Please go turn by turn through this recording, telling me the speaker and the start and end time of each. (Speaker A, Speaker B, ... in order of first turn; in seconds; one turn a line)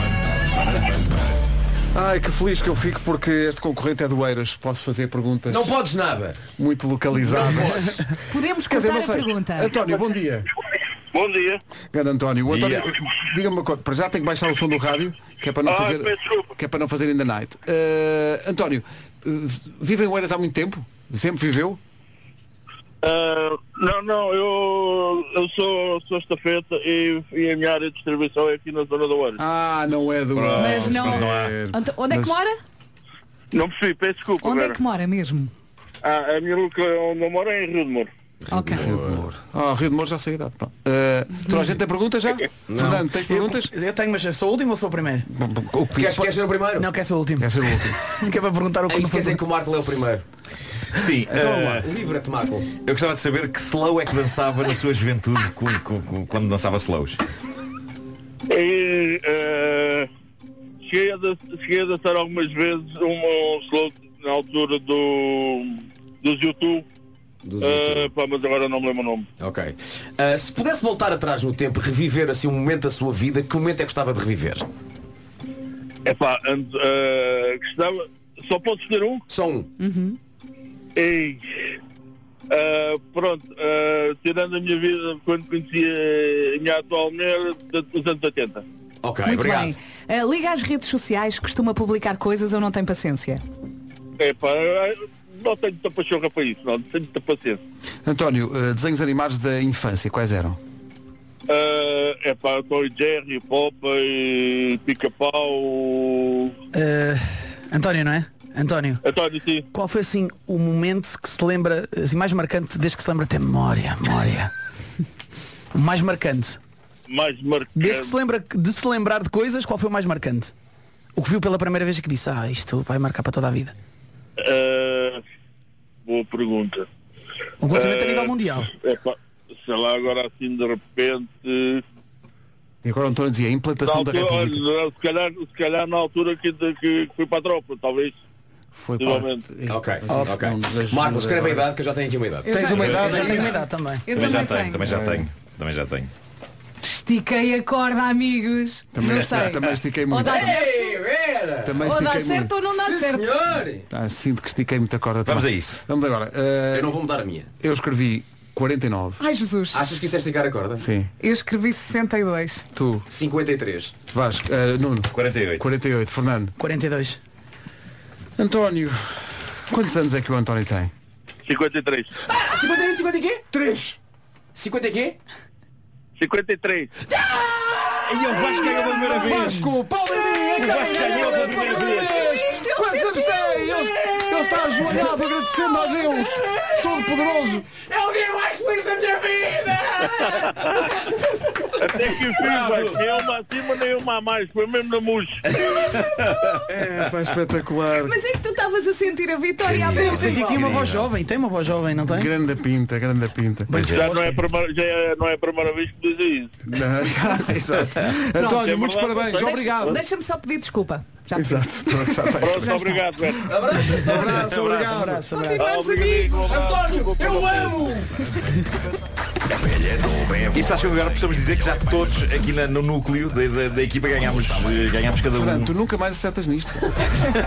Speaker A: 0.6-1.2
Speaker B: 1.9-5.7
Speaker C: 5.5-6.4
Speaker B: 6.6-10.5
Speaker C: 7.2-8.0
Speaker D: 8.2-9.7
Speaker E: 11.1-11.6
Speaker B: 11.9-21.8
Speaker A: 12.5-12.9
Speaker E: 15.6-16.5
Speaker E: 23.0-29.4
Speaker B: 29.4-32.4
Speaker E: 30.4-30.8
Speaker A: 30.4-31.6
Speaker D: 30.6-32.5
Speaker E: 33.5-34.8
Speaker D: 34.4-35.5
Speaker E: 36.0-38.1
Speaker C: 38.5-39.2
Speaker D: 38.5-38.9
Speaker B: 38.8-43.7
Speaker C: 42.7-43.0
Speaker F: 43.1-45.3
Speaker B: 45.3-46.3
Speaker C: 45.9-46.9
Speaker F: 46.6-49.4
Speaker B: 47.4-48.0
Speaker C: 48.9-50.2
Speaker A: 50.9-51.9
Speaker F: 51.0-51.9
Speaker C: 51.8-52.7
Speaker A: 52.8-57.2
Speaker E: 58.5-60.1
Speaker E: 60.8-66.8
Speaker C: 67.4-68.1
Speaker E: 67.6-69.3
Speaker C: 69.4-74.7
Speaker E: 76.0-79.2
Speaker C: 79.3-79.7
Speaker D: 79.8-80.2
Speaker E: 81.0-81.8
Speaker E: 82.5-88.6
Speaker C: 89.0-89.8
Speaker D: 89.2-93.4
Speaker E: 94.2-97.6
Speaker B: 98.0-100.6
Speaker E: 101.5-106.5
Speaker F: 106.7-109.0
Speaker E: 109.0-109.6
Speaker F: 109.7-114.5
Speaker F: 115.7-116.6
Speaker E: 117.1-118.1
Speaker F: 117.8-120.5
Speaker F: 121.1-123.7
Speaker E: 124.4-125.2
Speaker E: 126.0-126.9
Speaker F: 127.6-128.7
Speaker E: 127.7-131.8
Speaker B: 132.8-134.6
Speaker E: 133.8-138.2
Speaker B: 138.7-141.7
Speaker E: 139.0-139.4
Speaker C: 139.7-143.6
Speaker F: 140.1-140.4
Speaker D: 142.4-143.5
Speaker B: 142.5-143.7
Speaker A: 142.8-143.2
Speaker F: 143.3-144.2
Speaker D: 144.1-144.9
Speaker A: 144.1-146.1
Speaker B: 144.8-145.2
Speaker D: 146.8-151.1
Speaker B: 148.9-150.5
Speaker C: 150.2-151.8
Speaker B: 151.6-152.5
Speaker D: 151.8-153.4
Speaker C: 152.7-153.8
Speaker B: 153.9-156.9
Speaker A: 155.2-155.8
Speaker C: 156.7-157.5
Speaker B: 157.6-159.2
Speaker D: 159.2-159.8
Speaker C: 159.7-160.9
Speaker B: 160.8-161.1
Speaker D: 161.2-162.7
Speaker B: 162.7-163.1
Speaker C: 163.1-163.9
Speaker B: 164.1-166.5
Speaker A: 165.1-165.7
Speaker F: 166.6-167.2
Speaker B: 168.4-170.9
Speaker E: 171.4-172.1
Speaker C: 172.2-174.0
Speaker C: 174.5-175.2
Speaker E: 176.2-176.9
Speaker C: 177.1-178.7
Speaker A: 178.1-179.7
Speaker B: 178.3-187.7
Speaker C: 180.5-182.4
Speaker A: 180.6-182.2
Speaker D: 181.0-184.5
Speaker C: 187.7-193.0
Speaker E: 191.8-195.6
Speaker A: 195.7-196.5
Speaker B: 196.6-198.2
Speaker D: 197.9-200.3
Speaker C: 199.7-200.8
Speaker A: 199.7-201.1
Speaker F: 200.0-202.3
Speaker B: 202.1-203.7
Speaker F: 203.7-204.4
Speaker A: 203.7-204.0
Speaker E: 203.8-206.5
Speaker B: 206.7-210.0
Speaker D: 208.3-208.6
Speaker E: 208.5-210.0
Speaker D: 209.3-213.0
Speaker B: 211.3-213.0
Speaker E: 212.4-213.5
Speaker C: 213.4-214.4
Speaker B: 214.0-215.2
Speaker F: 214.2-215.7
Speaker E: 214.3-215.0
Speaker D: 215.3-216.4
Speaker E: 215.6-218.0
Speaker C: 216.4-218.2
Speaker A: 219.5-225.7
Speaker B: 225.3-227.1